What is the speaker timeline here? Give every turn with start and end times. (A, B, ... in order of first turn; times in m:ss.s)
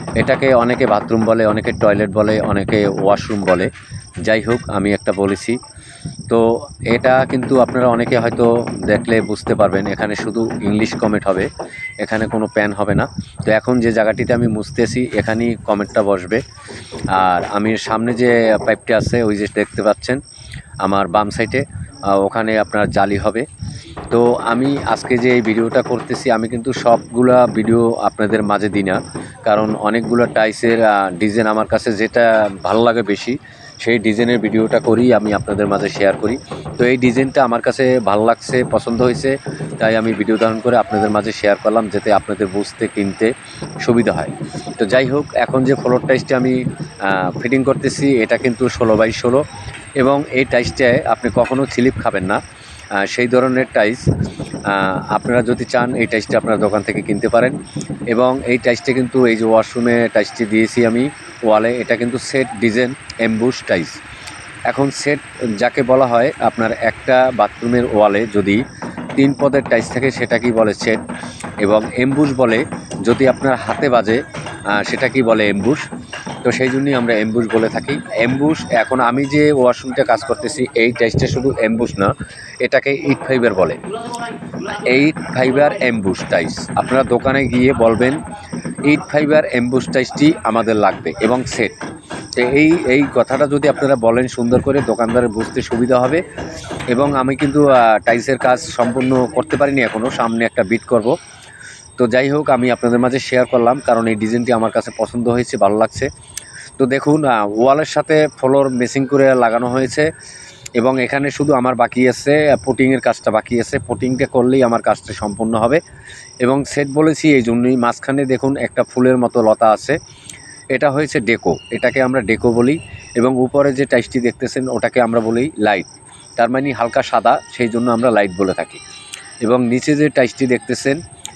0:00.2-0:03.7 A
0:04.3-0:05.6 A
0:06.3-0:11.5 A
0:12.0-0:16.4 A
0:17.1-0:20.2 A
0:20.8-0:23.5 A
0:24.1-0:43.3 A
0:43.8-0:49.4 A
0:50.0-0:52.4 A
0:53.0-0:54.0 A
0:54.7-0:57.6 A
0:58.1-1:04.0 A
1:04.7-1:08.6 A
1:09.2-1:11.0 A
1:11.6-1:15.8 A
1:16.4-1:22.1 A
1:22.6-1:23.8 A
1:24.7-1:28.2 A
1:28.8-1:31.7 A
1:32.4-1:36.2 A
1:36.9-1:41.2 A
1:42.0-1:46.1 A
1:46.8-1:50.1 A
1:50.8-1:55.8 A
1:56.4-2:00.0 A
2:00.7-2:08.8 A
2:09.4-2:11.0 A